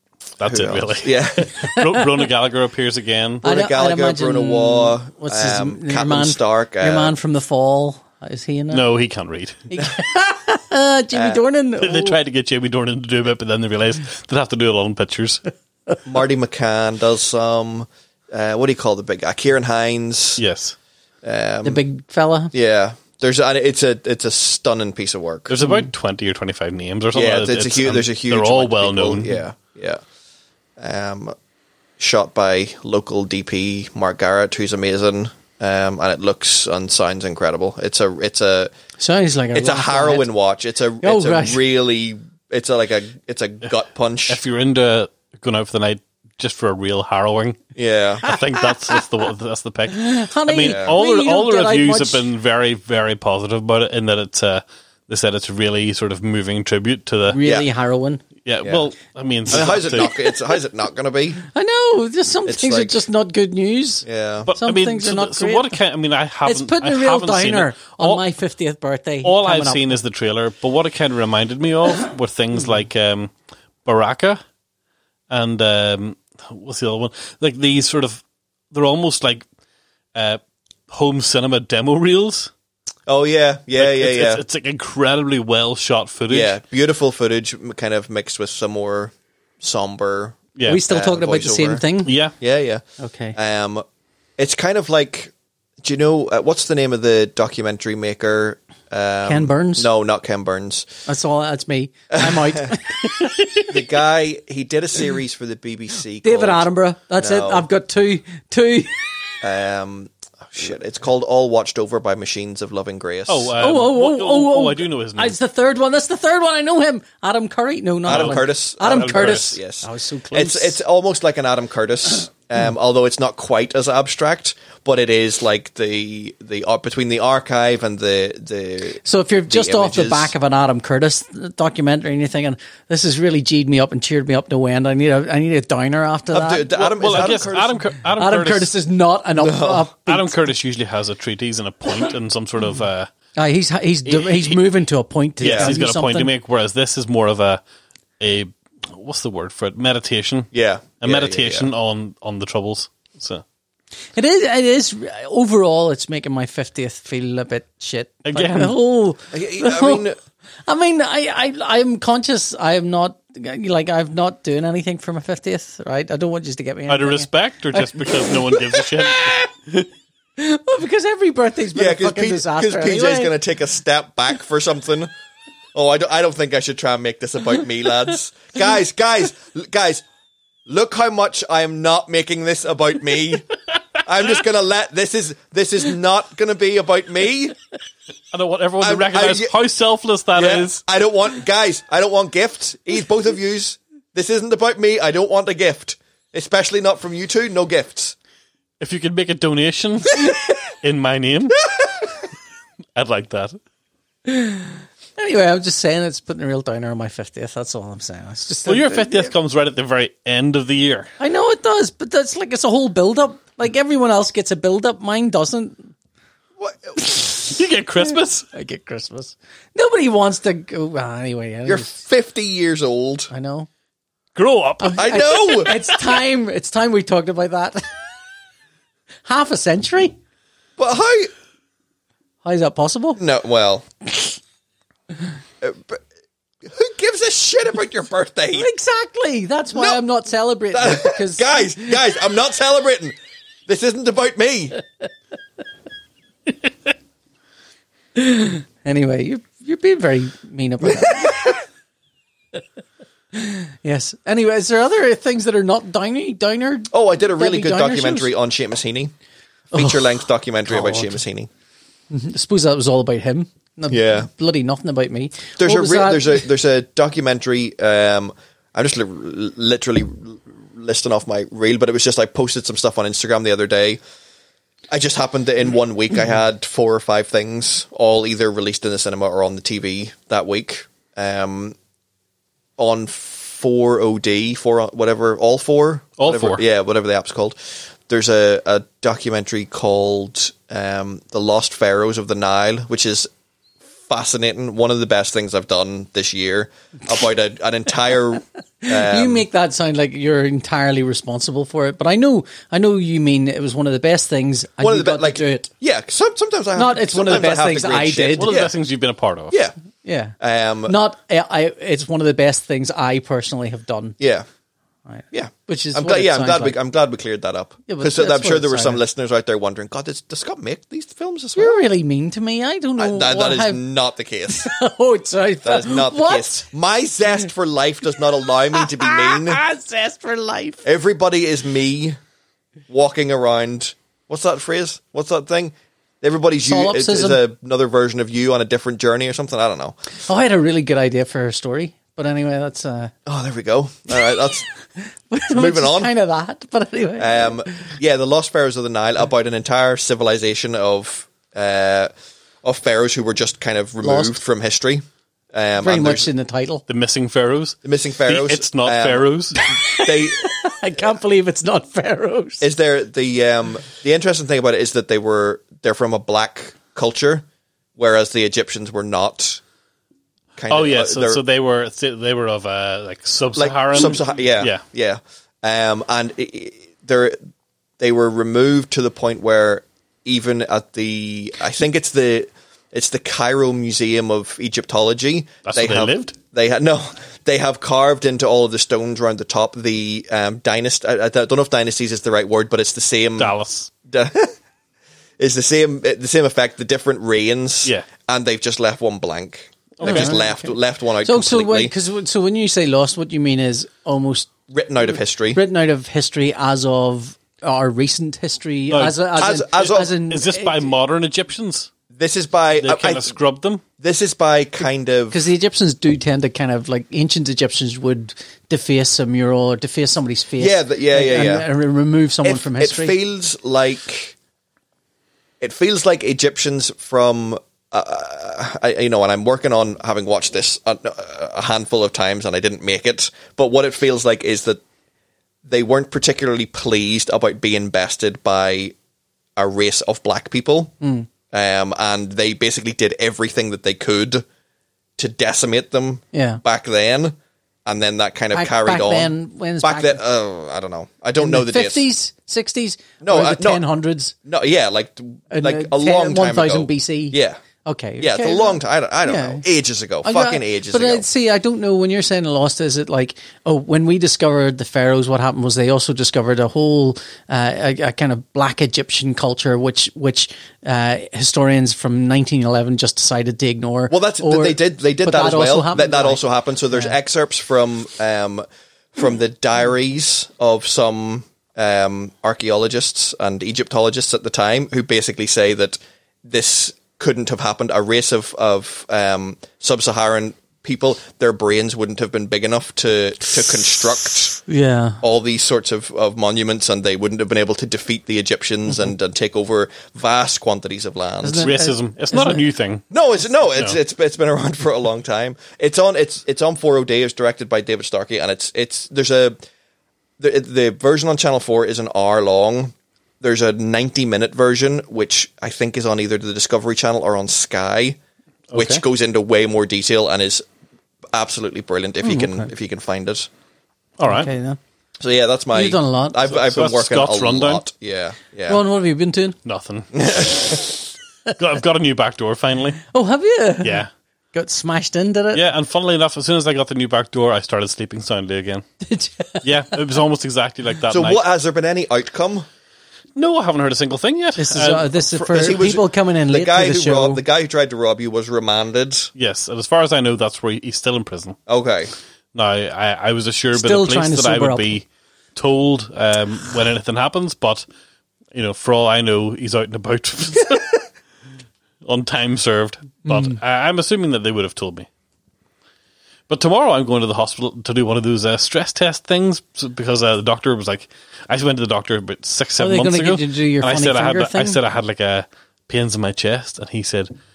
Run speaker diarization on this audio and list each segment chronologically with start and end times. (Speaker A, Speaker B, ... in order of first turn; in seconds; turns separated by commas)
Speaker A: 0.4-3.4, Speaker B: 0.4-1.7, Speaker C: 1.7-2.0, Speaker C: 3.4-8.8, Speaker B: 3.4-7.2, Speaker A: 8.7-9.7, Speaker C: 9.7-12.2, Speaker B: 11.1-11.4, Speaker A: 11.8-15.4, Speaker B: 16.1-20.4, Speaker A: 20.4-20.8, Speaker B: 21.2-21.8, Speaker C: 21.6-22.5, Speaker B: 22.5-25.6, Speaker A: 25.5-29.4, Speaker B: 27.1-30.0, Speaker B: 30.8-31.3, Speaker B: 32.0-38.7, Speaker C: 39.0-40.3, Speaker B: 39.5-44.4, Speaker C: 41.0-41.6, Speaker A: 44.3-47.6, Speaker B: 47.8-48.3, Speaker A: 48.2-57.4, Speaker C: 49.9-52.2, Speaker B: 50.7-51.0, Speaker C: 57.3-58.2, Speaker B: 57.4-57.7, Speaker A: 58.5-60.1, Speaker B: 59.5-61.4, Speaker C: 61.5-65.8, Speaker B: 62.5-63.0, Speaker B: 64.0-64.5, Speaker A: 64.5-68.3, Speaker C: 66.5-70.0, Speaker A: 69.2-73.3, Speaker A: 73.8-74.4, Speaker A: 75.3-79.5, Speaker A: 80.2-82.5, Speaker B: 83.1-84.4, Speaker A: 83.8-86.6, Speaker B: 86.3-91.8, Speaker A: 90.6-90.8, Speaker C: 90.7-92.2, Speaker A: 92.0-92.3, Speaker B: 92.4-92.8, Speaker C: 93.0-93.4, Speaker B: 93.3-93.8, Speaker B: 94.4-101.0, Speaker C: 99.2-99.9, Speaker C: 101.1-103.7, Speaker B: 102.1-102.8, Speaker B: 103.7-106.7, Speaker C: 106.2-109.0, Speaker B: 107.2-107.7, Speaker B: 109.4-113.5, Speaker A: 113.3-115.4, Speaker C: 113.6-120.8, Speaker B: 118.1-130.3, Speaker A: 118.1-119.5, Speaker C: 129.0-137.4, Speaker B: 136.3-137.8, Speaker A: 137.0-138.7, Speaker C: 138.2-140.4, Speaker B: 139.4-139.9, Speaker A: 140.1-143.1, Speaker C: 143.4-146.3, Speaker A: 144.1-144.6, Speaker A: 145.4-147.6, Speaker B: 145.4-145.7, Speaker A: 148.2-150.5, Speaker B: 150.5-151.7, Speaker A: 151.0-153.4, Speaker C: 154.2-160.1, Speaker A: 158.3-158.8, Speaker B: 159.3-160.2, Speaker C: 160.7-168.8, Speaker A: 166.9-169.9, Speaker C: 170.4-173.3, Speaker B: 171.7-175.1, Speaker B: 175.7-180.0, Speaker B: 180.7-183.5, Speaker B: 184.0-187.6, Speaker A: 188.3-190.8, Speaker B: 188.8-189.5, Speaker B: 190.4-198.2, Speaker A: 198.8-201.6, Speaker A: 203.0-203.6, Speaker C: 204.3-209.3, Speaker A: 208.7-211.1, Speaker C: 211.2-215.9, Speaker B: 216.6-217.0, Speaker A: 217.2-218.5, Speaker C: 218.0-221.9, Speaker B: 221.7-223.3, Speaker C: 223.3-223.7, Speaker A: 224.4-226.0, Speaker C: 224.8-227.9, Speaker B: 225.0-225.8, Speaker C: 229.3-230.2, Speaker B: 230.8-231.3, Speaker C: 232.4-233.2, Speaker B: 233.2-234.1, Speaker B: 235.6-236.0, Speaker B: 236.6-238.7, Speaker C: 238.6-241.9, Speaker B: 239.7-240.0, Speaker B: 240.7-243.2, Speaker B: 243.7-244.8, Speaker C: 248.2-251.6, Speaker B: 250.9-251.6, Speaker C: 253.3-258.3, Speaker B: 256.9-259.1, Speaker B: 259.7-261.5, Speaker C: 259.7-260.1, Speaker C: 260.7-261.2, Speaker C: 262.1-266.5, Speaker B: 263.9-264.3, Speaker B: 265.6-274.0, Speaker B: 274.9-281.8, Speaker B: 282.8-293.3, Speaker A: 286.2-286.6, Speaker B: 294.1-299.4, Speaker C: 298.8-305.7, Speaker B: 304.8-308.7, Speaker C: 306.8-308.5, Speaker A: 308.4-309.6, Speaker B: 309.5-309.8, Speaker C: 310.0-314.2, Speaker B: 310.4-311.0, Speaker B: 314.2-314.5, Speaker C: 315.1-316.8, Speaker B: 315.3-321.8, Speaker C: 317.9-319.0, Speaker C: 321.6-323.8, Speaker B: 323.0-324.7, Speaker C: 324.5-326.6, Speaker B: 325.6-329.6, Speaker C: 328.7-330.9, Speaker B: 330.8-332.2, Speaker B: 332.9-340.0, Speaker C: 336.6-337.4, Speaker C: 340.2-343.1, Speaker B: 343.3-344.7, Speaker C: 345.0-347.9, Speaker B: 345.5-346.1, Speaker B: 347.2-352.1, Speaker B: 352.6-356.3, Speaker C: 354.0-354.4, Speaker C: 355.8-356.8, Speaker A: 356.9-359.6, Speaker B: 357.9-359.3, Speaker C: 359.7-362.6, Speaker B: 360.0-360.5, Speaker B: 362.6-369.6, Speaker B: 370.6-371.4, Speaker A: 370.7-374.8, Speaker B: 373.6-377.4, Speaker B: 378.0-393.6, Speaker A: 385.6-386.3, Speaker A: 393.4-393.9, Speaker B: 394.1-394.5, Speaker B: 395.4-401.9, Speaker A: 400.0-400.4, Speaker C: 400.0-404.5, Speaker B: 404.7-405.6, Speaker C: 405.5-410.9, Speaker A: 408.9-409.2, Speaker B: 409.4-410.1, Speaker A: 410.3-411.9, Speaker B: 412.1-413.3, Speaker A: 412.8-413.8, Speaker B: 414.0-415.4, Speaker C: 415.3-423.2, Speaker B: 420.6-421.7, Speaker B: 422.4-424.4, Speaker B: 425.6-434.8, Speaker B: 435.6-438.9, Speaker B: 439.6-440.9, Speaker C: 441.0-441.3, Speaker B: 441.5-444.4, Speaker B: 445.2-452.1, Speaker C: 446.3-446.6, Speaker C: 448.5-450.2, Speaker C: 451.4-454.3, Speaker B: 453.2-453.8, Speaker B: 454.4-457.6, Speaker C: 455.5-459.6, Speaker B: 458.2-461.2, Speaker C: 460.2-477.2, Speaker B: 474.1-494.6, Speaker C: 494.6-495.2, Speaker B: 495.2-501.7, Speaker C: 501.4-502.6, Speaker A: 501.6-503.0, Speaker B: 503.1-509.6, Speaker B: 510.4-518.2, Speaker A: 518.7-519.0, Speaker B: 518.7-520.6, Speaker B: 521.3-523.5, Speaker C: 522.2-522.7, Speaker A: 524.2-524.5, Speaker C: 524.2-524.8, Speaker B: 525.2-528.8, Speaker C: 525.7-526.5, Speaker A: 526.5-527.8, Speaker C: 528.7-529.6, Speaker A: 529.6-531.0, Speaker B: 530.1-530.6, Speaker A: 531.5-533.0, Speaker C: 533.1-535.6, Speaker A: 533.8-534.1, Speaker A: 535.5-538.9, Speaker C: 539.0-540.0, Speaker A: 539.6-541.4, Speaker B: 541.1-542.7, Speaker A: 543.4-545.1, Speaker C: 544.6-547.4, Speaker B: 545.3-549.3, Speaker A: 549.4-551.6, Speaker B: 551.7-552.1, Speaker A: 552.5-557.9, Speaker C: 553.7-555.0, Speaker A: 558.5-561.0, Speaker A: 562.0-565.1, Speaker C: 563.3-563.6, Speaker A: 566.5-577.3, Speaker C: 572.8-574.8